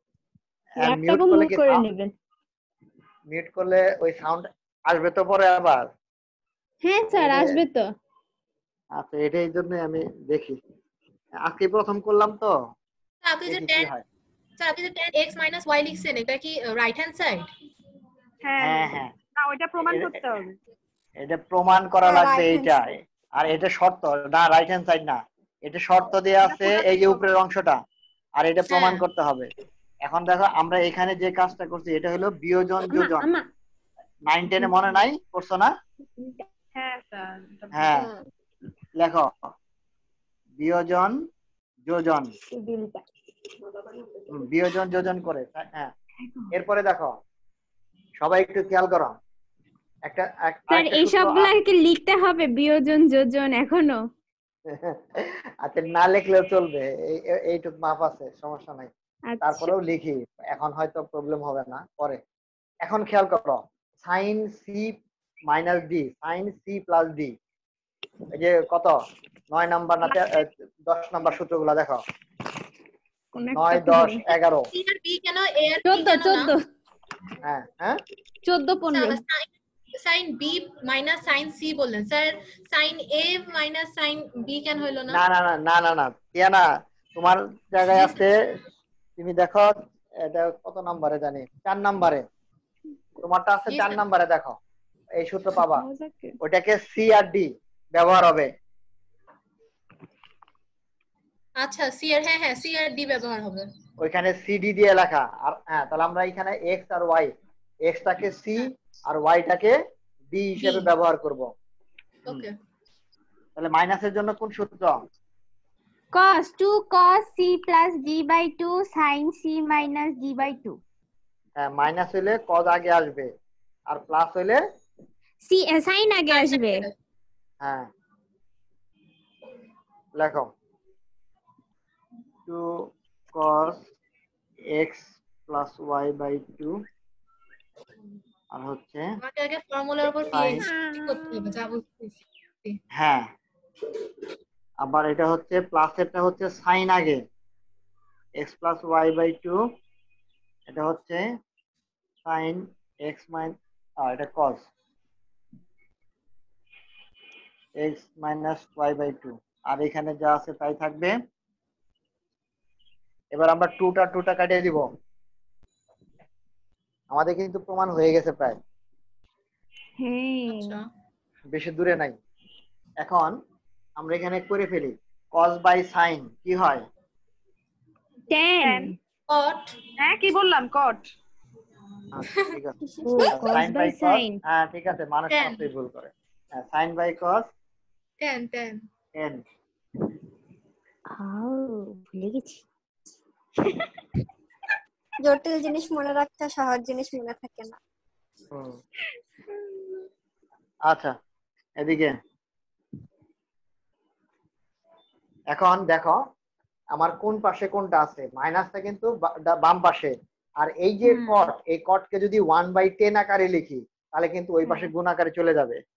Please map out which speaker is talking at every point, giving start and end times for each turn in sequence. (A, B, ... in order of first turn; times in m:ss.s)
0:00.8-0:01.8 A
0:00.8-0:02.1 B
0:03.3-0:05.9 A
0:06.8-0:07.9 B
0:07.1-0:07.6 A
0:09.0-0:10.6 A
0:11.4-0:12.5 A
0:13.2-0:13.9 C
0:13.5-0:14.0 A
0:14.6-0:17.5 C
0:18.4-0:20.6 D
0:18.6-0:19.1 A
0:19.8-0:20.2 A
0:21.2-0:27.8 A
0:22.0-0:22.7 E
0:26.4-0:27.2 D
0:28.4-0:29.5 A
0:28.7-0:29.0 C
0:30.0-0:33.3 A
0:32.9-0:33.4 B
0:34.3-0:35.7 A
0:36.2-0:36.4 B
0:36.7-0:38.1 D
0:37.7-0:38.1 A
0:39.0-0:39.3 A
0:40.6-0:41.2 A
0:41.9-0:42.3 A
0:42.5-0:43.0 B
0:44.3-0:45.9 A
0:46.2-0:46.5 B
0:46.5-0:47.1 A
0:48.2-0:49.2 A
0:50.0-0:51.5 A
0:50.7-0:54.0 B
0:54.7-1:02.2 A
0:59.3-0:59.7 B
1:02.8-1:05.0 A
1:05.5-1:07.3 A
1:08.3-1:09.0 A
1:09.5-1:12.0 A
1:13.3-1:14.2 B
1:13.5-1:14.7 A
1:14.7-1:16.6 C
1:15.9-1:16.6 B
1:17.4-1:18.0 A
1:18.4-1:19.2 B
1:18.9-1:25.2 C
1:25.1-1:28.4 A
1:29.2-1:32.2 A
1:33.2-1:34.6 A
1:33.7-1:34.0 C
1:35.2-1:35.9 A
1:35.8-1:36.4 B
1:36.4-1:38.5 A
1:41.6-1:43.7 C
1:44.0-1:47.3 A
1:47.8-1:49.8 A
1:50.3-1:51.5 A
1:50.6-1:50.9 C
1:52.3-1:52.5 C
1:53.6-1:55.0 A
1:56.1-2:00.8 B
2:01.6-2:03.3 A
2:03.9-2:04.6 A
2:05.4-2:06.9 B
2:06.3-2:06.9 C
2:07.6-2:07.9 A
2:10.2-2:10.5 A
2:12.5-2:13.9 A
2:14.7-2:16.8 A
2:18.5-2:19.1 A
2:19.2-2:22.8 C
2:20.3-2:20.7 A
2:20.7-2:21.5 B
2:22.9-2:23.3 A
2:24.8-2:27.2 A
2:28.4-2:29.6 A
2:30.7-2:31.2 A
2:32.2-2:34.7 A
2:37.8-2:41.1 A
2:43.3-2:44.9 A
2:47.1-2:48.6 A
2:50.0-2:50.8 B
2:50.5-2:50.9 C
2:51.5-2:52.2 A
2:53.0-2:53.4 A
2:54.0-2:56.8 A
2:58.3-2:58.9 B
2:58.6-2:59.0 D
2:59.3-2:59.8 C
3:00.0-3:01.1 D
3:02.1-3:02.8 A
3:03.0-3:04.4 B
3:03.1-3:03.3 E
3:03.3-3:07.5 A
3:05.3-3:05.7 C
3:08.2-3:08.9 C
3:09.2-3:09.4 A
3:11.1-3:12.6 B
3:15.2-3:17.8 E
3:18.5-3:18.8 A
3:20.9-3:21.1 A
3:21.8-3:22.2 A
3:25.5-3:26.2 A
3:26.9-3:35.8 A
3:31.1-3:31.5 B